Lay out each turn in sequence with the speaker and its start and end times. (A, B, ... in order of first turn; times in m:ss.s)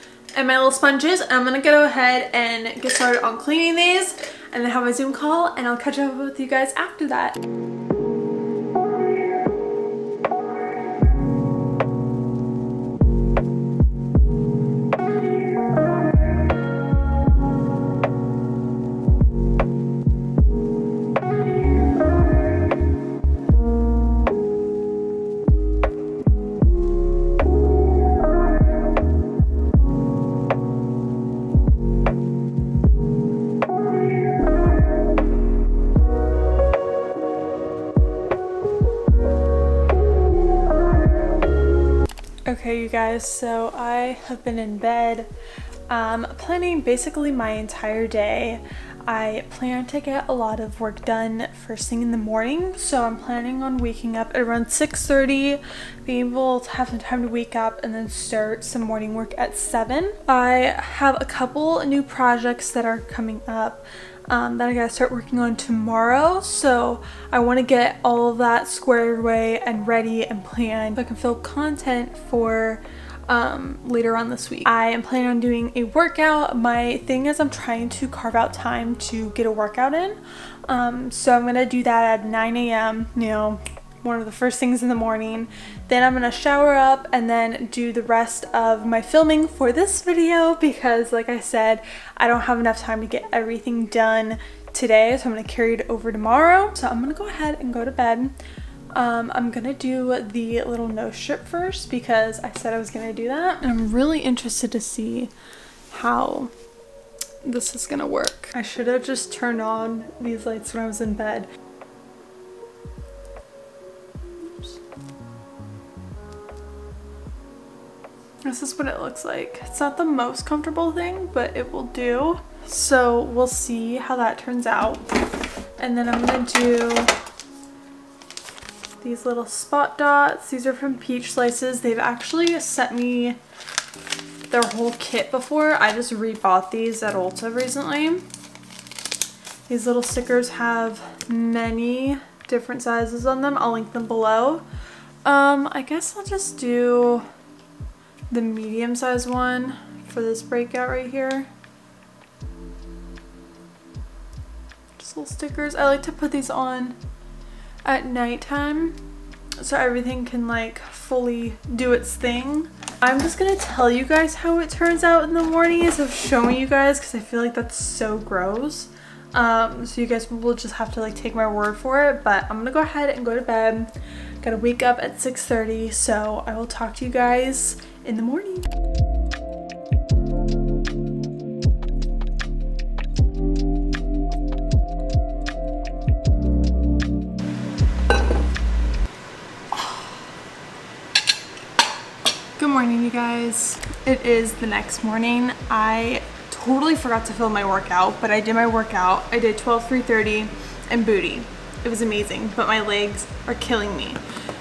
0:00.3-0:07.4 A
0:42.4-0:45.3 A
0:45.9-1:38.3 A
1:38.9-1:45.3 A
1:45.9-1:46.5 A
1:47.4-1:51.5 A
1:54.4-1:54.7 A
1:58.4-2:05.1 A
2:05.8-2:07.1 A
2:09.0-2:13.4 A
2:14.5-2:18.2 A
2:19.7-2:24.6 A
2:25.2-2:27.2 A
2:28.3-2:31.5 A
2:35.0-2:37.0 A
2:37.8-2:39.0 A
2:39.6-2:58.7 A
3:09.7-3:10.0 A
3:12.6-3:24.2 A